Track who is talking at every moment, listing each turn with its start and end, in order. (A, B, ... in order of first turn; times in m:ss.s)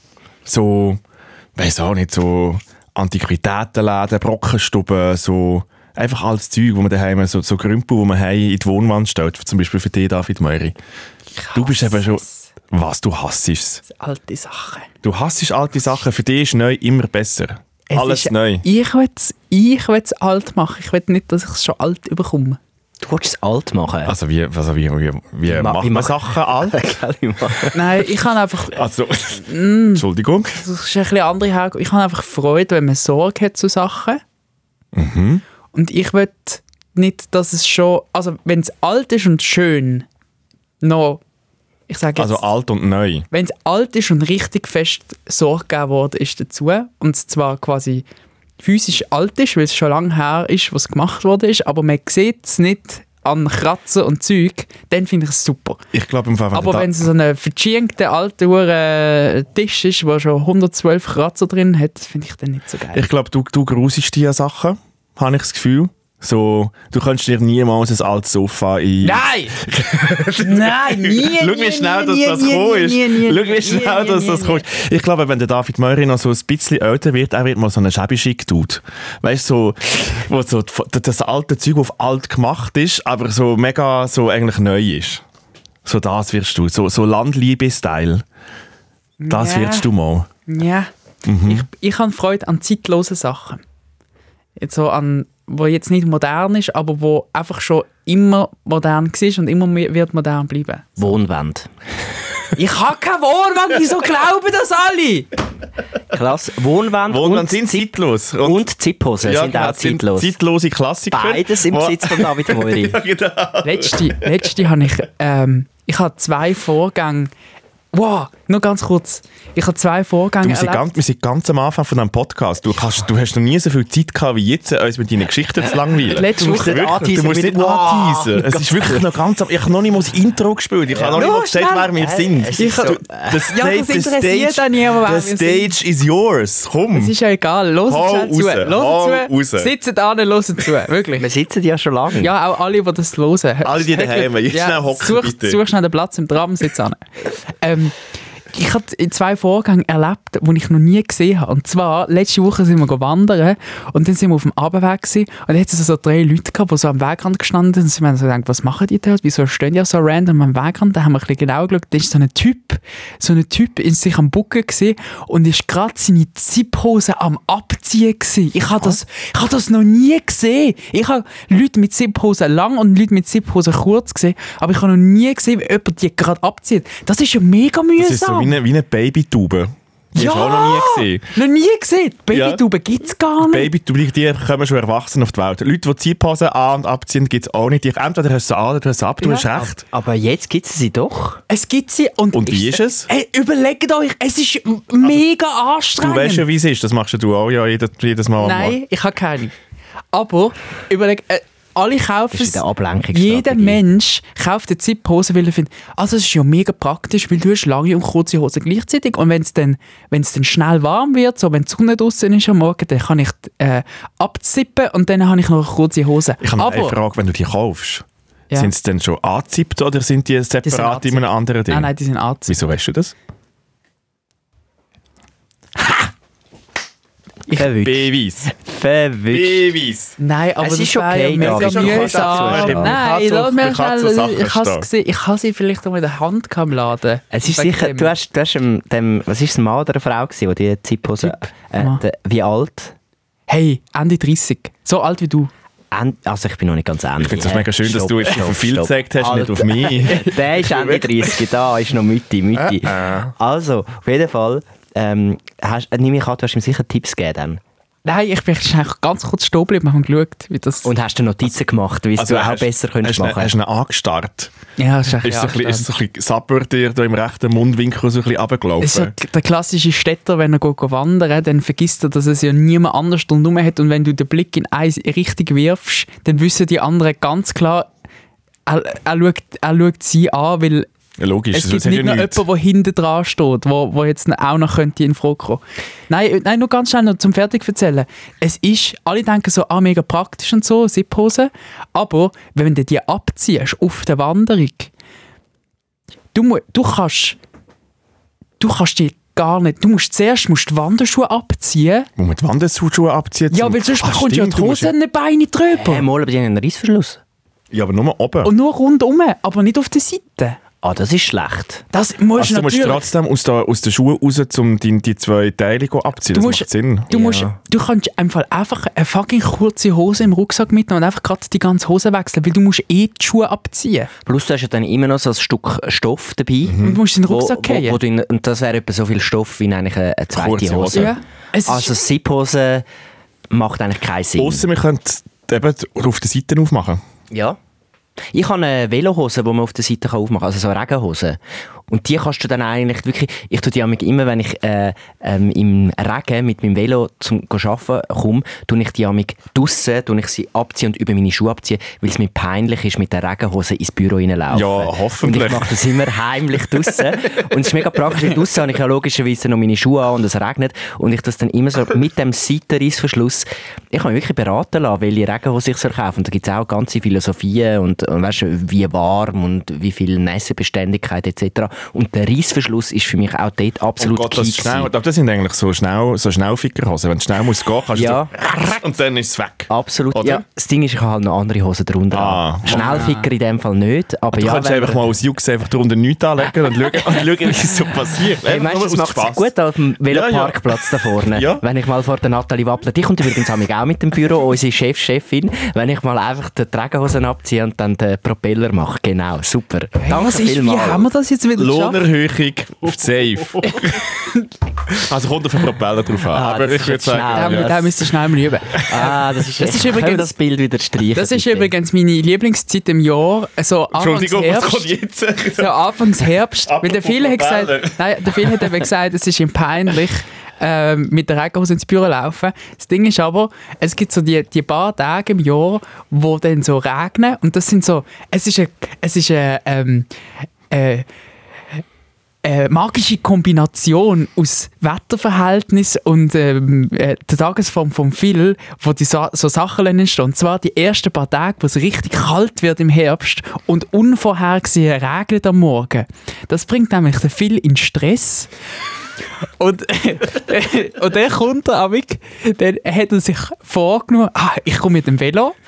0:00.5-0:01.0 A
0:01.6-0:10.7 A
0:11.4-0:12.4 B
0:11.5-0:13.8 A
0:13.8-0:14.9 B
0:15.0-0:18.6 A
0:17.9-0:22.6 B
0:23.0-0:24.1 C
0:24.0-0:26.9 A
0:25.5-0:27.8 C
0:27.7-0:28.8 B
0:28.8-0:30.6 A
0:29.4-0:34.2 B
0:35.0-0:35.4 A
0:35.7-0:40.0 B
0:40.8-0:41.2 B
0:41.9-0:42.4 B
0:42.2-0:43.2 A
0:43.3-0:48.0 B
0:48.6-0:55.8 B
0:55.9-0:57.0 A
0:56.5-1:03.1 B
1:02.9-1:25.2 A
1:09.0-1:09.6 B
1:10.4-1:14.6 B
1:25.8-1:28.2 A
1:29.2-1:29.9 B
1:29.3-1:30.3 A
1:30.5-1:30.9 B
1:31.2-1:31.7 A
1:31.4-1:33.6 B
1:34.6-1:40.9 B
1:41.0-1:41.7 C
1:42.6-1:45.3 B
1:46.1-1:47.9 C
1:47.1-1:48.7 A
1:48.4-1:50.4 C
1:49.2-1:54.3 A
1:51.1-1:53.0 C
1:53.6-1:57.3 B
1:57.9-2:00.9 B
2:00.4-2:17.1 A
2:06.1-2:07.3 B
2:06.3-2:09.0 C
2:10.9-2:11.2 C
2:11.1-2:11.9 B
2:12.0-2:13.4 C
2:12.6-2:13.0 B
2:13.5-2:15.7 B
2:16.9-2:21.3 B
2:17.9-2:19.7 A
2:21.2-2:22.3 C
2:22.2-2:28.0 B
2:23.6-2:25.6 A
2:28.5-2:58.5 B
2:58.0-3:01.2 A
3:00.2-3:03.7 B
3:02.3-3:02.6 A
3:03.4-3:09.8 A
3:09.2-3:09.5 B
3:09.5-3:11.4 C
3:11.5-3:16.5 B
3:12.3-3:13.1 A
3:16.0-3:18.8 A
3:18.4-3:19.5 B
3:20.1-3:22.6 B
3:22.3-3:23.8 C
3:23.1-3:36.9 B
3:36.4-3:41.9 A
3:40.6-3:42.6 B
3:42.5-3:43.1 A
3:47.5-3:49.7 C
3:47.6-3:48.5 A
3:49.3-3:50.1 A
3:50.2-3:58.1 B
3:50.6-3:53.0 C
3:51.4-3:54.9 A
3:57.3-4:02.9 C
4:01.8-4:02.0 B
4:03.5-4:05.5 B
4:05.9-4:17.6 C
4:07.2-4:11.0 A
4:12.6-4:13.3 A
4:18.0-4:20.9 B
4:20.8-4:23.5 C
4:22.2-4:24.5 A
4:24.8-4:25.9 B
4:25.2-4:29.1 A
4:28.8-4:37.9 B
4:38.7-4:40.9 B
4:41.2-4:42.4 A
4:41.5-4:54.9 B
4:56.3-4:57.4 B
4:58.6-5:02.1 B
5:02.2-5:04.9 A
5:03.5-5:06.0 B
5:05.7-5:07.2 C
5:07.7-5:08.5 A
5:08.4-5:10.6 B
5:10.8-5:11.8 C
5:11.9-5:13.1 B
5:12.4-5:17.1 A
5:16.3-5:24.1 B
5:17.1-5:17.5 C
5:24.2-5:32.8 C
5:26.7-5:27.0 A
5:26.8-5:28.0 B
5:30.3-5:31.2 A
5:30.9-5:31.9 B
5:33.5-5:34.6 C
5:34.4-5:37.0 A
5:37.3-5:37.6 C
5:38.3-6:14.9 C
5:54.5-5:55.9 A
6:14.0-6:20.4 A
6:17.9-6:18.3 C
6:19.7-6:25.0 C
6:22.1-6:23.0 A
6:22.7-6:23.2 B
6:24.3-6:29.5 A
6:28.4-6:41.1 C
6:30.1-6:31.6 A
6:40.0-6:42.0 B
6:41.6-6:44.0 A
6:43.6-6:44.5 B
6:45.1-6:47.7 A
6:46.3-6:48.0 C
6:47.1-6:50.3 B
6:48.8-6:51.7 C
6:51.1-6:54.9 B
6:53.9-6:55.8 A
6:55.6-7:10.1 B
6:56.6-6:58.7 A
7:10.7-7:11.1 B
7:12.4-7:28.5 B
7:29.4-7:35.6 B